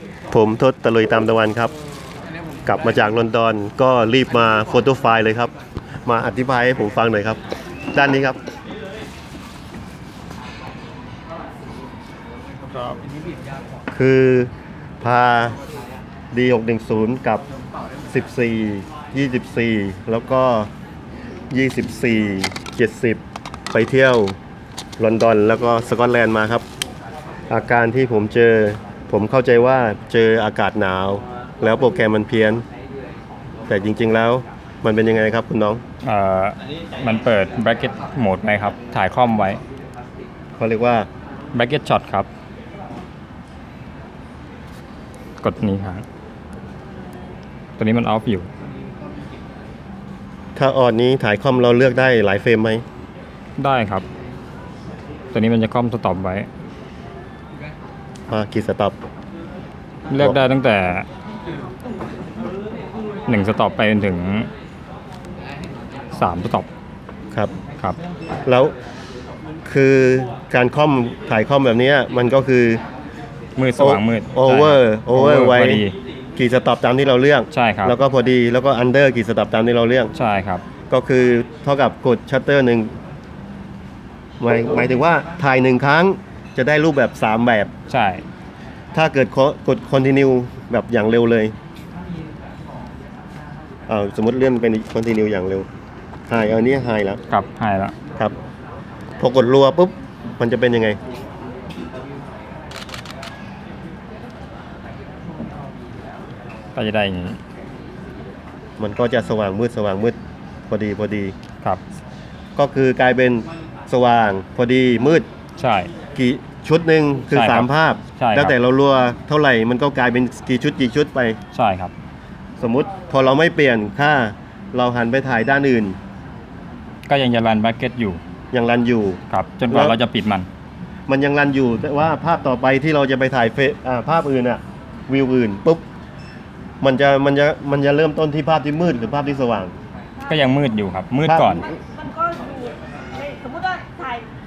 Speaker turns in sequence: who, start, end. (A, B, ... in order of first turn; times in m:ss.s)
0:00.3-0:01.7 A
0:02.6-0:05.5 A
0:06.0-0:07.4 A
0:07.9-0:08.4 A
0:13.9-0:15.6 A
0:16.3-0:17.4 A
0:18.1-0:20.7 A
0:21.5-0:24.4 A
0:25.0-0:26.6 A
0:27.5-0:32.6 A
0:33.7-0:35.8 A
0:36.0-0:39.6 B
0:40.6-0:41.1 A
0:41.5-0:42.3 B
0:45.4-0:46.0 B
0:47.8-0:48.5 B
0:50.6-0:52.8 A
0:53.6-0:54.0 B
0:55.3-0:56.5 B
0:58.3-0:59.0 A
1:00.1-1:01.1 B
1:03.3-1:04.5 B
1:06.1-1:06.7 B
1:08.4-1:08.8 A
1:09.7-1:12.8 A
1:13.6-1:15.9 B
1:13.8-1:20.1 A
1:17.5-1:18.0 B
1:20.1-1:20.6 B
1:20.9-1:22.9 A
1:24.4-1:27.7 A
1:27.9-1:28.2 B
1:28.9-1:31.6 A
1:33.9-1:35.7 A
1:36.3-1:37.2 A
1:37.3-1:37.9 B
1:39.2-1:41.0 A
1:46.7-1:47.4 B
1:48.8-1:50.2 A
1:50.7-1:51.3 A
1:52.6-1:55.2 A
1:55.6-1:55.9 B
1:56.2-2:01.4 A
1:57.3-1:58.5 B
2:01.5-2:01.9 B
2:02.6-2:06.0 A
2:07.1-2:08.2 B
2:08.5-2:10.0 A
2:09.3-2:10.5 B
2:11.1-2:15.8 A
2:16.8-2:19.7 A
2:20.2-2:20.6 C
2:20.3-2:21.6 B
2:21.3-2:21.7 A
2:21.6-2:24.3 C